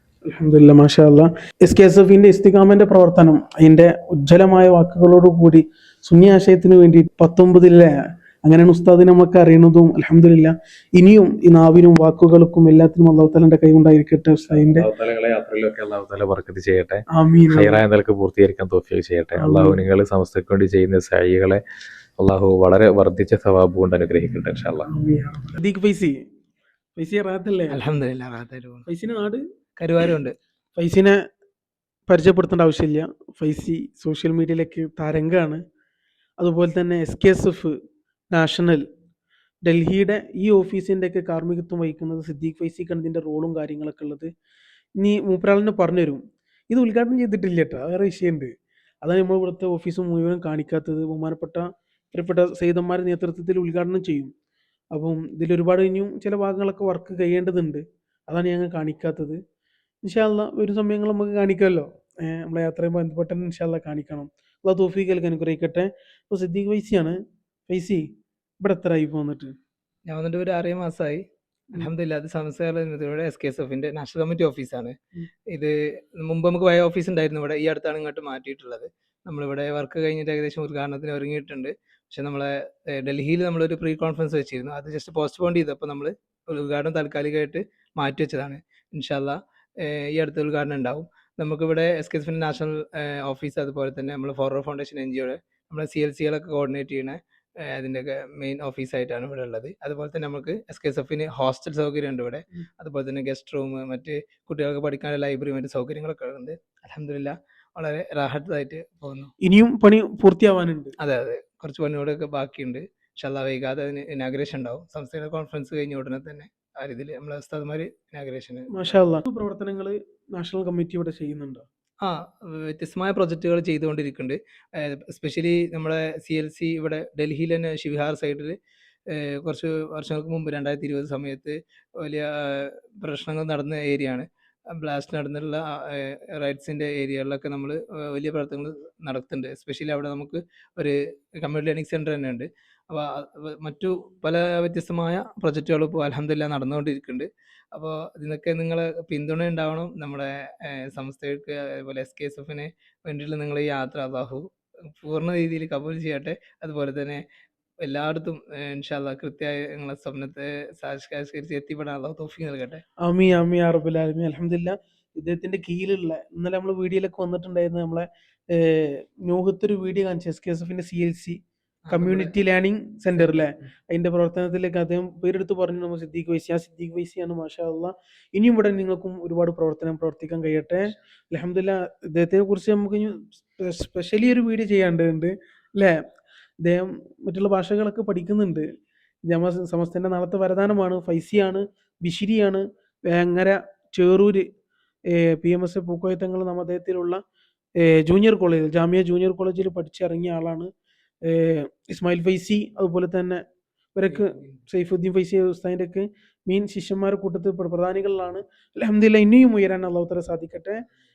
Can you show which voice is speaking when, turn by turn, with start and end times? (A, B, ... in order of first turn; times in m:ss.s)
0:00.2-0:14.9 A
0:14.7-0:21.6 B
0:17.1-0:17.8 A
0:19.4-0:19.8 A
0:22.2-0:24.9 B
0:24.9-0:26.2 A
0:27.0-0:27.8 A
0:27.7-0:28.8 C
0:28.9-0:29.4 A
0:29.8-0:30.4 C
0:30.8-0:31.2 A
0:32.1-0:35.6 A
0:36.4-0:37.8 A
0:38.3-0:38.8 A
0:39.6-0:44.3 A
0:45.0-0:48.5 A
0:49.0-0:54.3 A
0:54.9-0:59.4 A
1:00.0-1:07.2 A
1:07.7-1:08.0 A
1:08.6-1:09.5 A
1:10.1-1:11.2 C
1:11.7-1:15.0 C
1:15.5-1:49.3 C
1:49.4-1:51.0 A
1:51.0-1:59.0 C
1:58.7-2:01.7 A
2:02.0-2:08.6 C
2:09.1-2:37.2 C
2:37.8-2:42.8 C
2:43.0-2:51.4 A
2:51.9-2:52.3 C
2:51.9-3:06.0 A
2:53.2-2:53.5 C
3:06.6-3:08.7 A
3:09.3-3:14.5 A
3:15.1-3:17.2 A
3:17.8-3:20.7 A
3:21.2-3:23.4 A
3:24.0-3:30.8 A
3:24.1-3:24.6 C